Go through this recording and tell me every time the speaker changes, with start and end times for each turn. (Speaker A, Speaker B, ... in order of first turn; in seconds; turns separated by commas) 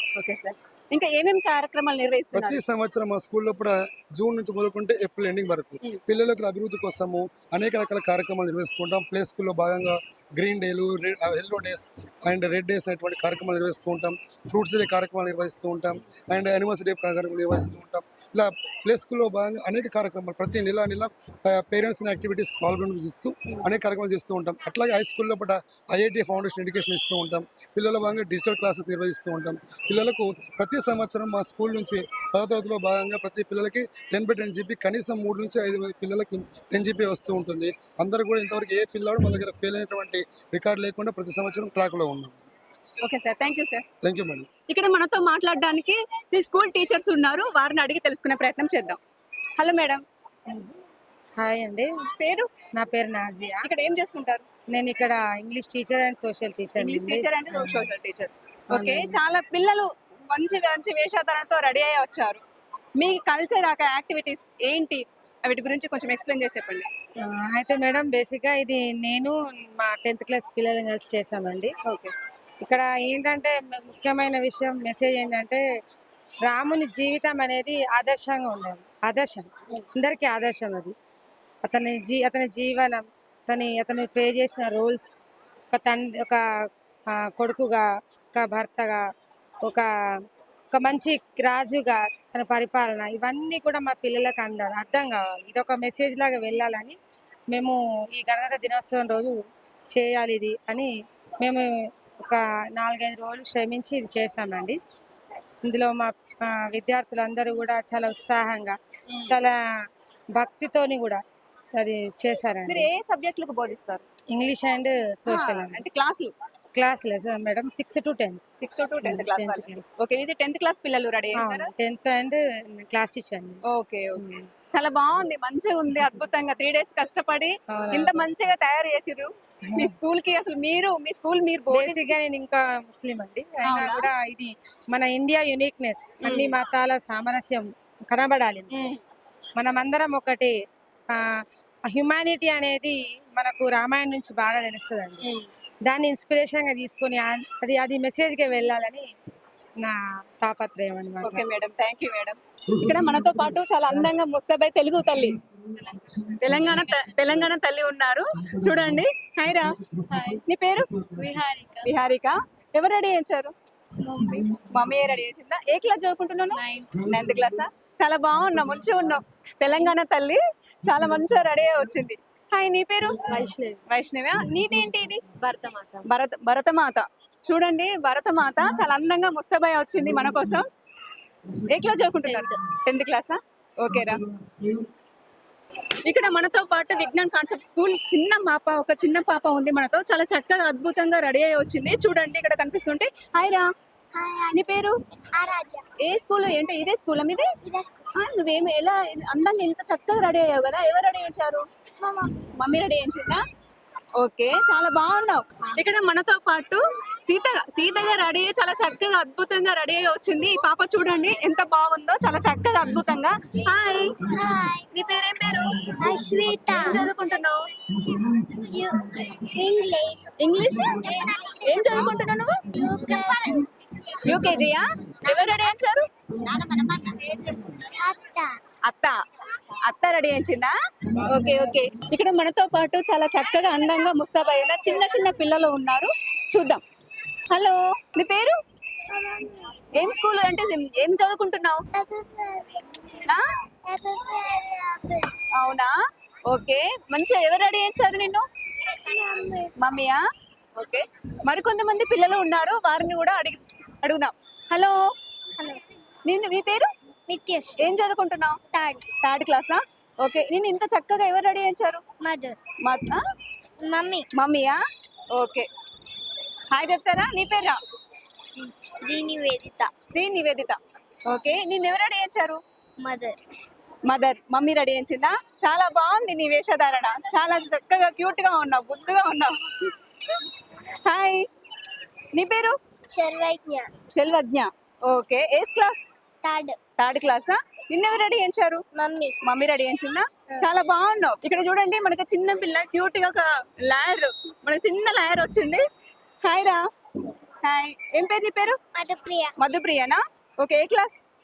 Speaker A: 0.1-2.6, Speaker B: 2.3-42.4, Speaker A: 43.0-43.8, Speaker B: 44.0-44.5, Speaker A: 44.7-49.0, Speaker A: 49.6-50.0, Speaker C: 50.5-50.7, Speaker C: 51.4-51.9, Speaker A: 52.2-52.5, Speaker C: 52.8-53.7, Speaker A: 53.6-54.5, Speaker C: 54.7-57.9, Speaker A: 56.8-62.4, Speaker C: 58.7-59.2, Speaker A: 63.0-66.9, Speaker C: 67.2-71.7, Speaker A: 71.8-72.1, Speaker C: 72.6-75.6, Speaker C: 76.4-80.9, Speaker C: 81.6-85.1, Speaker C: 85.7-86.4, Speaker C: 87.1-89.0, Speaker C: 90.7-97.0, Speaker C: 97.5-99.3, Speaker C: 99.9-101.7, Speaker C: 102.3-104.8, Speaker C: 105.6-109.6, Speaker C: 110.3-111.2, Speaker C: 111.7-112.9, Speaker A: 112.7-114.0, Speaker C: 114.3-115.8, Speaker A: 115.3-116.3, Speaker C: 116.7-118.4, Speaker A: 118.6-121.7, Speaker C: 119.0-120.0, Speaker C: 121.3-123.6, Speaker A: 123.7-132.1, Speaker C: 124.2-124.5, Speaker C: 127.7-128.3, Speaker C: 131.7-138.7, Speaker A: 133.7-134.1, Speaker A: 136.2-136.5, Speaker A: 138.7-139.0, Speaker C: 139.6-140.5, Speaker C: 141.9-145.2, Speaker A: 145.2-145.5, Speaker C: 145.9-149.1, Speaker C: 149.8-151.4, Speaker A: 151.2-155.4, Speaker A: 156.4-159.8, Speaker D: 160.1-160.4, Speaker A: 160.4-160.9, Speaker D: 161.2-161.9, Speaker A: 161.8-163.5, Speaker D: 164.0-164.5, Speaker A: 164.5-173.2, Speaker D: 166.5-166.9, Speaker D: 173.3-173.8, Speaker A: 173.9-175.2, Speaker D: 175.3-176.0, Speaker A: 176.0-180.7, Speaker A: 181.6-184.2, Speaker A: 186.0-193.7, Speaker E: 194.1-194.6, Speaker A: 194.5-194.9, Speaker E: 195.3-195.8, Speaker A: 196.0-197.5, Speaker E: 197.6-198.1, Speaker A: 198.1-201.6, Speaker E: 202.0-202.4, Speaker A: 202.6-203.4, Speaker A: 204.2-214.2, Speaker E: 214.2-214.8, Speaker A: 214.9-216.0, Speaker E: 215.9-217.0, Speaker A: 216.7-217.7, Speaker E: 218.3-220.3, Speaker A: 220.4-222.6, Speaker E: 220.9-222.2, Speaker E: 222.7-223.7, Speaker A: 224.2-226.1, Speaker E: 226.6-226.8, Speaker E: 227.9-228.5, Speaker A: 228.8-229.2, Speaker A: 229.8-236.8, Speaker A: 237.5-238.6, Speaker E: 239.1-239.8, Speaker A: 239.9-241.8, Speaker E: 241.9-243.2, Speaker E: 243.8-245.3, Speaker A: 245.5-245.9, Speaker A: 246.5-248.4, Speaker E: 248.8-249.7, Speaker A: 249.8-250.2, Speaker A: 250.8-255.0, Speaker A: 256.2-256.9, Speaker E: 257.3-257.9, Speaker A: 257.8-258.6, Speaker E: 258.7-259.0, Speaker A: 259.2-262.0, Speaker E: 262.2-262.6, Speaker A: 262.8-263.2, Speaker E: 263.8-264.2, Speaker A: 264.3-264.8, Speaker A: 265.3-265.7, Speaker A: 266.7-267.8, Speaker E: 268.4-269.9, Speaker A: 270.1-272.6, Speaker E: 273.0-273.4, Speaker A: 274.1-279.9, Speaker A: 281.1-281.4, Speaker A: 282.3-282.8, Speaker E: 283.1-283.9, Speaker A: 284.1-286.0, Speaker E: 286.4-286.8, Speaker A: 287.0-288.8, Speaker E: 288.9-289.3, Speaker A: 289.4-295.8, Speaker A: 296.4-296.8, Speaker A: 297.6-298.8, Speaker E: 298.9-299.6, Speaker A: 299.6-301.2